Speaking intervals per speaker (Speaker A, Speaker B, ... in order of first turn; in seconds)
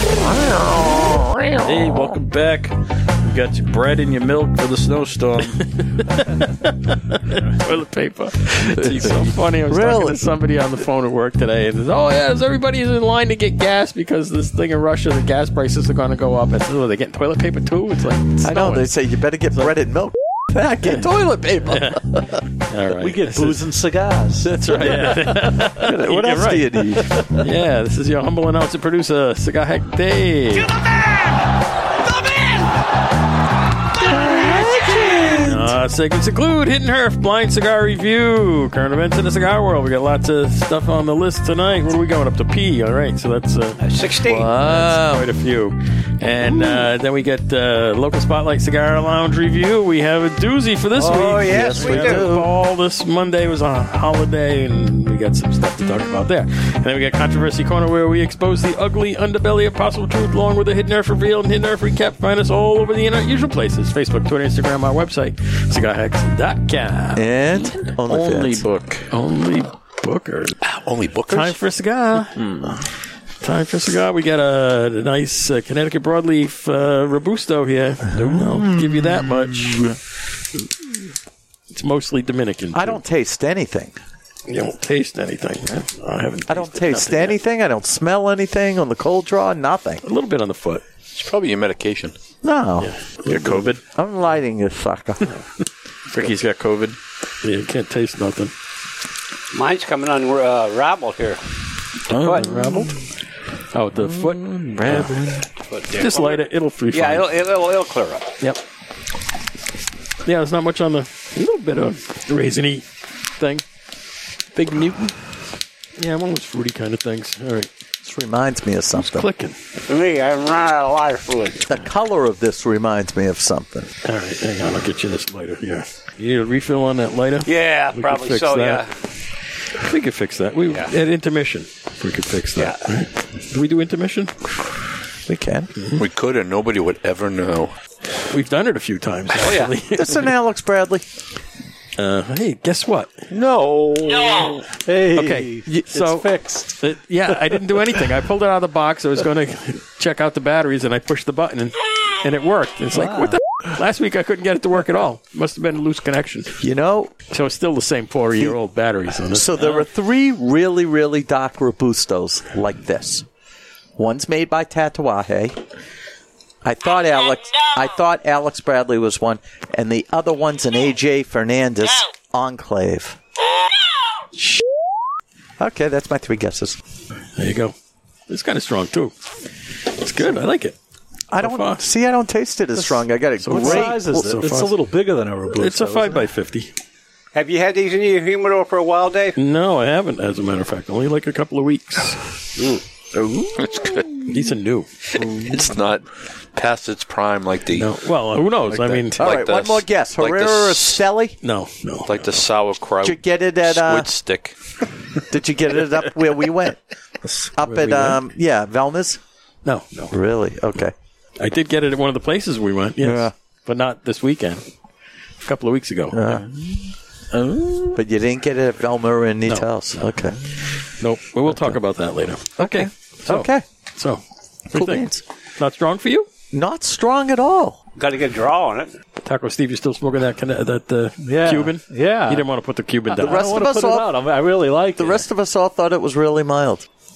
Speaker A: 0.5-5.7, 68.0-69.1, 72.3-72.8, 93.3-93.8, 96.1-97.0, 102.1-103.0, 104.0-105.5, 114.5-115.2, 207.2-208.2, 216.3-216.8, 217.3-218.0
Speaker B: 5.7-18.9, 21.7-22.1, 22.6-23.6, 24.5-30.7, 35.4-43.8, 44.5-67.2, 69.1-70.6, 71.3-72.8, 73.4-80.0, 81.7-83.0, 84.5-87.4, 90.0-90.8, 92.8-93.6, 97.4-98.5, 102.4-102.9, 103.7-105.2, 106.0-107.3, 110.2-112.8, 113.4-113.6, 116.0-117.7, 118.9-119.5, 124.0-128.8, 129.7-134.3, 138.3-140.3, 142.0-143.1, 145.1-156.6, 157.3-159.8, 177.3-177.8, 178.3-179.2, 179.8-180.8, 181.4-181.8, 182.8-184.7, 185.6-186.7, 189.3-192.2, 194.3-194.9, 197.8-199.2, 201.4-202.4, 207.7-208.0, 209.7-210.1, 211.4-214.6, 215.4-216.2, 219.5-220.1, 221.0-226.3, 229.2-233.6
Speaker C: 8.6-10.3, 18.4-22.4, 24.4-27.3, 34.0-35.8, 44.2-45.3, 46.4-46.9, 51.5-52.5, 67.2-68.7, 82.7-84.0, 86.5-90.0, 92.4-92.9, 94.0-95.3, 118.0-119.3, 121.7-123.9, 135.3-135.8, 139.9-141.0, 156.6-157.1, 159.3-163.3, 164.0-165.6, 166.6-173.2, 175.6-176.8, 181.3-184.3, 198.7-201.4, 203.0-204.1, 205.3-206.8, 207.5-209.2, 210.1-210.9, 213.0-213.3, 216.1-216.5, 217.9-220.4, 221.5-221.8, 222.6-223.6, 224.7-225.2, 226.5-227.8, 233.2-234.1, 235.0-236.8
Speaker D: 23.0-24.6, 144.8-146.8, 152.9-153.4, 183.5-186.3, 231.2-232.5, 233.2-235.2
Speaker E: 30.5-31.4, 32.0-32.7, 34.2-35.2
Speaker F: 43.8-44.5, 51.0-52.2, 99.5-101.4, 102.2-102.5, 105.7-108.3, 119.9-121.7, 127.5-128.9, 139.3-139.7, 187.3-189.4, 228.0-228.9
Speaker G: 70.6-71.6, 91.1-92.2, 136.0-137.7, 143.3-144.6, 193.6-194.2, 195.2-197.9, 199.2-201.0, 202.1-204.5